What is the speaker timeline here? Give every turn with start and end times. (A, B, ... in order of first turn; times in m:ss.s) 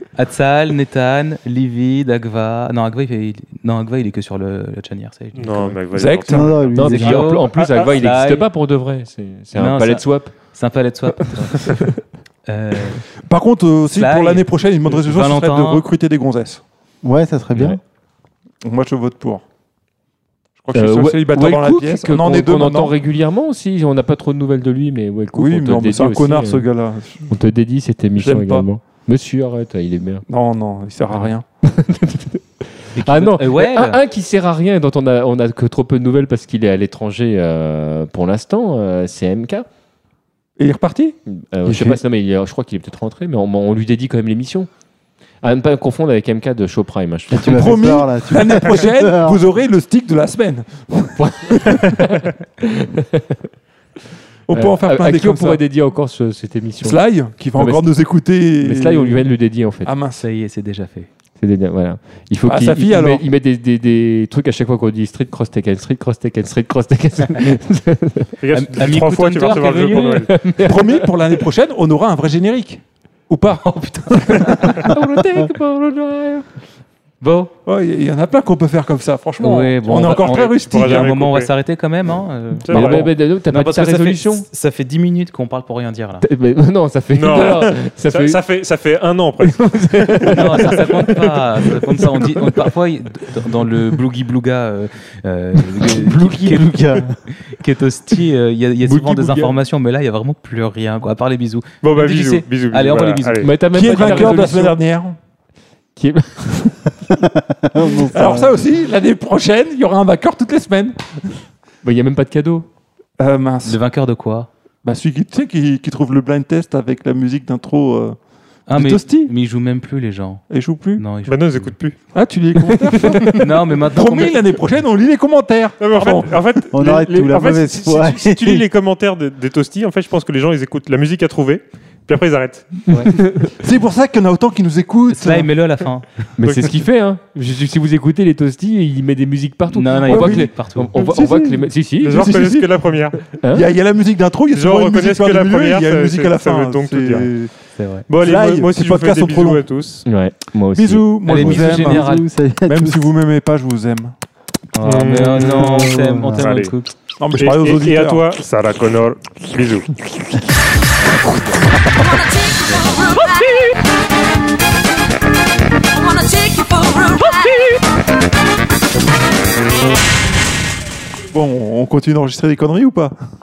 0:00.2-0:05.8 A
0:05.3-0:06.8 B
0:05.9-0:06.6 C
0:06.3-0:07.4 D
0:06.7-0:10.3 E
0:06.9-0:08.5 A
0:07.5-0:07.9 B
0:09.6-0:11.8 A
0:11.2-0:12.0 E
0:12.5-0:13.0 A
0:13.3-0:16.6 C
0:13.9-0:15.8 A
0:17.0-0:17.8 D
0:18.6-0:19.4 C
0:20.6-0:22.9 C
0:20.7-0:26.7 E
0:25.4-0:27.4 C
0:27.3-0:30.3 E
0:28.2-0:28.7 C
0:30.3-0:31.4 C
0:31.6-0:39.7 E
0:33.0-0:34.0 A
0:40.6-0:42.0 C
0:41.3-0:44.7 E
0:45.4-0:47.8 E
0:47.3-0:49.4 D
0:47.4-0:52.0 C
0:51.2-0:53.4 E
0:54.5-0:55.6 C
0:54.5-0:59.9 E
0:56.8-0:59.2 C
0:59.8-1:00.2 C
1:00.2-1:01.1 A
1:01.4-1:08.3 E
1:02.5-1:03.3 C
1:08.4-1:10.5 B
1:08.5-1:10.7 A
1:09.9-1:11.4 E
1:10.6-1:14.9 C
1:13.8-1:14.9 A
1:14.4-1:16.5 E
1:17.2-1:17.5 A
1:17.7-1:21.3 C
1:19.4-1:26.3 A
1:20.2-1:21.5 B
1:22.6-1:23.1 B
1:22.7-1:24.5 E
1:26.2-1:28.4 E
1:27.1-1:30.8 B
1:29.4-1:31.0 E
1:30.3-1:44.4 A
1:35.9-1:37.2 D
1:38.8-1:39.6 E
1:41.8-1:43.6 B
1:43.4-1:44.8 E
1:43.7-1:45.2 C
1:46.0-1:46.9 E
1:47.1-1:48.6 D
1:48.1-1:51.4 C
1:51.8-1:52.7 E
1:53.2-1:53.8 C
1:53.6-1:54.5 A
1:54.8-1:58.2 C
1:58.7-2:00.4 A
1:58.7-1:59.3 C
2:00.5-2:01.1 C
2:01.0-2:01.7 A
2:01.2-2:02.1 B
2:02.1-2:07.1 C
2:03.1-2:03.3 E
2:03.3-2:04.4 A
2:05.8-2:12.8 B
2:06.7-2:08.6 D
2:12.9-2:13.5 E
2:13.5-2:15.5 C
2:15.1-2:16.3 A
2:16.4-2:22.4 E
2:16.4-2:16.8 B
2:19.7-2:21.4 A
2:20.1-2:22.7 C
2:22.0-2:23.3 B
2:23.4-2:23.7 E
2:23.5-2:27.5 C
2:24.5-2:27.3 B
2:27.8-2:28.1 A
2:28.1-2:30.1 B
2:28.2-2:29.6 C
2:30.1-2:31.8 E
2:30.7-2:32.1 C
2:31.2-2:32.3 A
2:31.7-2:33.1 D
2:32.7-2:34.2 C
2:34.7-2:36.9 A
2:34.8-2:36.7 B
2:35.8-2:36.4 D
2:37.2-2:38.2 C
2:37.4-2:39.9 B
2:41.9-2:44.0 F
2:45.7-2:47.9 F
2:51.3-2:53.1 C